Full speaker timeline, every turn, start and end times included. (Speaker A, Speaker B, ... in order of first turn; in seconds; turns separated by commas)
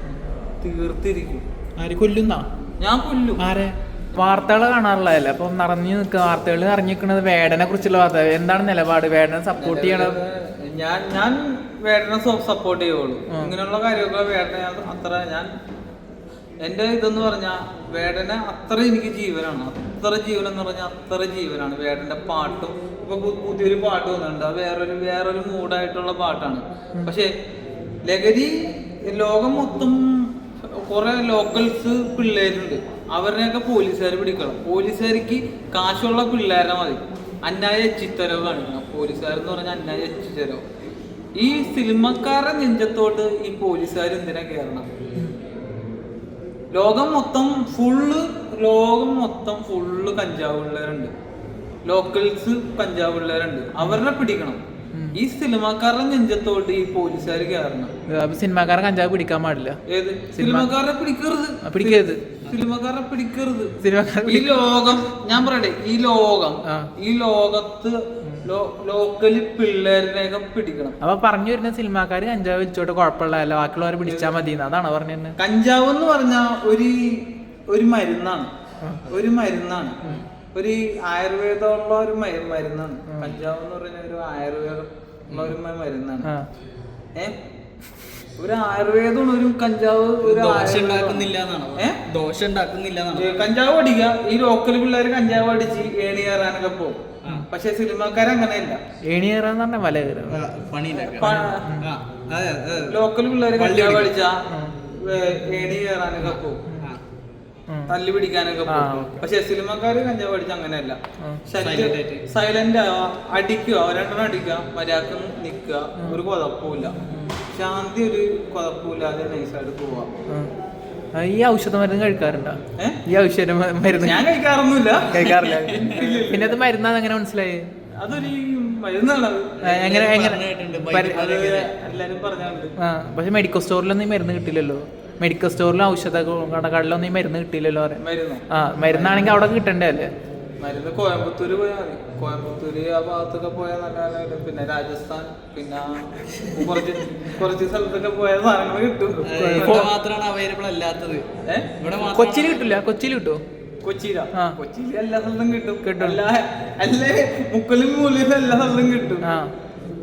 Speaker A: 0.6-1.4, Speaker B: 1.8-2.5, Speaker A: 2.8-3.4, Speaker B: 3.4-10.2, Speaker A: 4.1-4.5, Speaker A: 9.6-15.5, Speaker A: 16.6-27.3, Speaker A: 28.1-40.6, Speaker A: 41.4-44.8, Speaker A: 46.7-51.1, Speaker A: 51.9-54.6, Speaker A: 55.1-57.9, Speaker B: 58.1-59.8, Speaker A: 59.9-63.7, Speaker B: 60.4-60.7, Speaker B: 61.6-62.2, Speaker B: 63.8-64.5, Speaker A: 64.2-71.0, Speaker B: 71.0-75.3, Speaker A: 74.0-74.3, Speaker A: 75.4-78.5, Speaker B: 78.8-79.1, Speaker A: 79.1-80.0, Speaker A: 80.5-86.3, Speaker B: 83.1-83.3, Speaker C: 85.3-85.5, Speaker A: 88.4-92.0, Speaker C: 90.2-93.3, Speaker A: 93.2-98.8, Speaker B: 99.1-100.4, Speaker C: 100.3-101.3, Speaker A: 101.1-101.8, Speaker B: 101.2-101.9, Speaker C: 101.8-103.0, Speaker A: 102.9-104.4, Speaker C: 103.5-104.1, Speaker B: 104.5-104.7, Speaker A: 104.9-106.6, Speaker C: 106.2-107.0, Speaker A: 107.9-116.9, Speaker B: 108.7-109.2, Speaker C: 111.6-112.2, Speaker A: 117.5-120.1, Speaker B: 121.1-124.2, Speaker A: 123.9-126.6, Speaker B: 125.1-128.3, Speaker C: 125.1-126.0, Speaker A: 128.0-130.2, Speaker C: 129.6-131.7, Speaker B: 129.6-131.2, Speaker A: 131.0-132.7, Speaker B: 132.8-138.0, Speaker A: 138.0-139.4, Speaker B: 138.5-140.1, Speaker A: 140.6-149.9, Speaker C: 149.2-151.2, Speaker B: 149.3-149.9, Speaker C: 151.8-152.7, Speaker B: 152.1-153.4, Speaker A: 153.8-159.2, Speaker B: 155.8-156.2, Speaker B: 159.2-159.5